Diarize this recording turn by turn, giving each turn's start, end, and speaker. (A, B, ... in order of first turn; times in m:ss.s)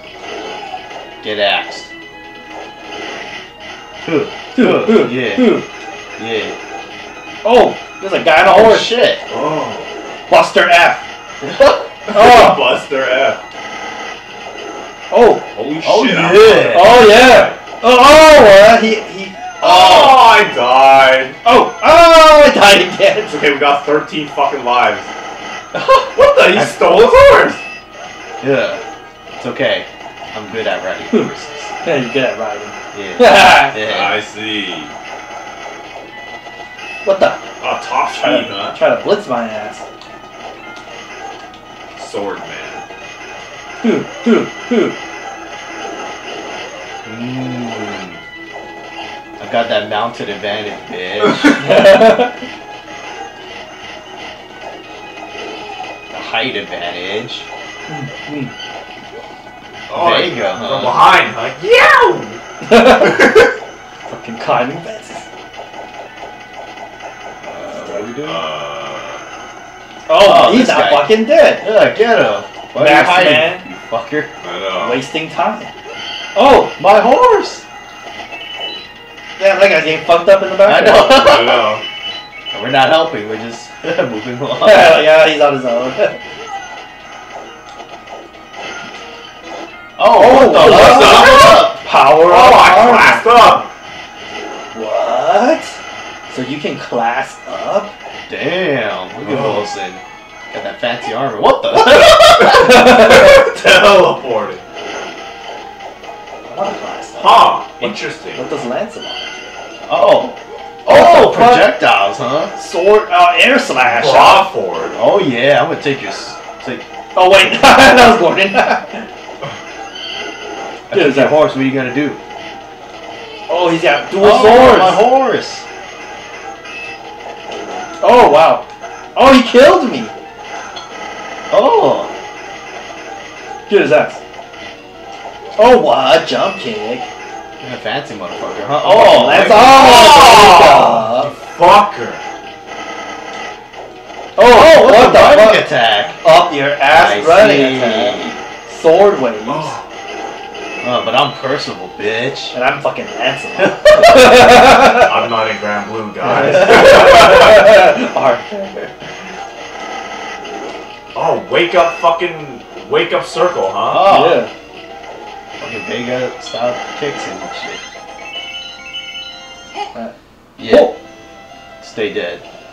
0:01.2-0:01.9 A
0:04.0-0:05.6 A
0:04.5-0:05.6 B
0:06.2-0:06.6 A
0:07.4-0:09.0 B
0:08.4-0:09.2 A
0:09.3-0:09.9 C
0:10.3-0:11.0 B
0:11.4-0:11.9 A
0:12.1-0:13.4 C
0:12.1-0:12.6 B
0:15.1-0:15.5 B
0:15.5-0:17.6 C
0:15.8-0:17.0 A
0:16.7-0:20.2 B
0:19.6-0:21.4 C
0:21.4-0:23.4 B
0:23.2-0:25.1 C
0:25.7-0:27.2 A
0:26.1-0:27.6 C
0:28.4-0:28.8 A
0:29.4-0:31.7 A
0:31.8-0:33.8 B
0:32.9-0:34.2 A
0:33.7-0:34.9 C
0:37.0-0:37.4 B
0:37.6-0:38.8 C
0:38.2-0:39.8 B
0:42.0-0:42.8 C
0:43.8-0:45.0 B
0:47.0-0:48.2 A
0:49.4-0:51.8 A
0:51.6-0:52.4 B
0:56.1-0:57.5 A
0:57.9-0:58.5 B
0:59.9-1:03.5 C
0:59.9-1:01.1 A
1:02.6-1:03.2 B
1:04.1-1:05.2 B
1:07.4-1:08.4 A
1:08.2-1:09.2 C
1:10.1-1:11.6 B
1:10.1-1:14.3 A
1:12.7-1:13.6 B
1:14.4-1:15.0 C
1:14.8-1:15.7 B
1:16.3-1:16.7 B
1:16.8-1:17.6 A
1:19.4-1:21.5 B
1:20.6-1:21.7 A
1:21.1-1:21.8 C
1:22.5-1:25.0 A
1:24.6-1:26.2 B
1:30.0-1:31.8 A
1:30.1-1:33.3 B
1:30.6-1:31.6 C
1:32.2-1:33.7 C
1:34.7-1:37.9 B
1:38.3-1:42.8 A
1:39.2-1:39.7 C
1:41.7-1:44.6 C
1:42.5-1:43.4 B
1:46.4-1:49.4 B
1:47.2-1:48.4 C
1:49.9-1:52.5 A
1:50.9-1:51.8 B
1:52.6-1:54.5 B
1:53.8-1:55.0 C
1:54.9-1:56.8 A
1:57.1-1:59.1 B
2:00.9-2:02.2 A
2:00.9-2:01.4 B
2:03.5-2:05.0 B
2:04.2-2:05.7 A
2:08.0-2:10.1 B
2:11.5-2:12.1 A
2:13.7-2:14.2 B
2:15.6-2:17.1 B
2:17.6-2:19.9 A
2:18.8-2:21.3 B
2:19.6-2:22.2 C
2:24.4-2:29.8 B
2:24.4-2:26.2 A
2:26.9-2:28.4 A
2:29.4-2:29.8 C
2:30.8-2:32.5 A
2:32.5-2:35.1 B
2:33.6-2:34.3 A
2:34.8-2:37.6 C
2:36.2-2:38.9 B
2:41.1-2:44.1 C
2:43.9-2:44.4 A
2:44.0-2:44.5 B
2:45.6-2:47.8 A
2:50.6-2:50.9 A
2:50.6-2:51.0 B
2:51.8-2:52.4 A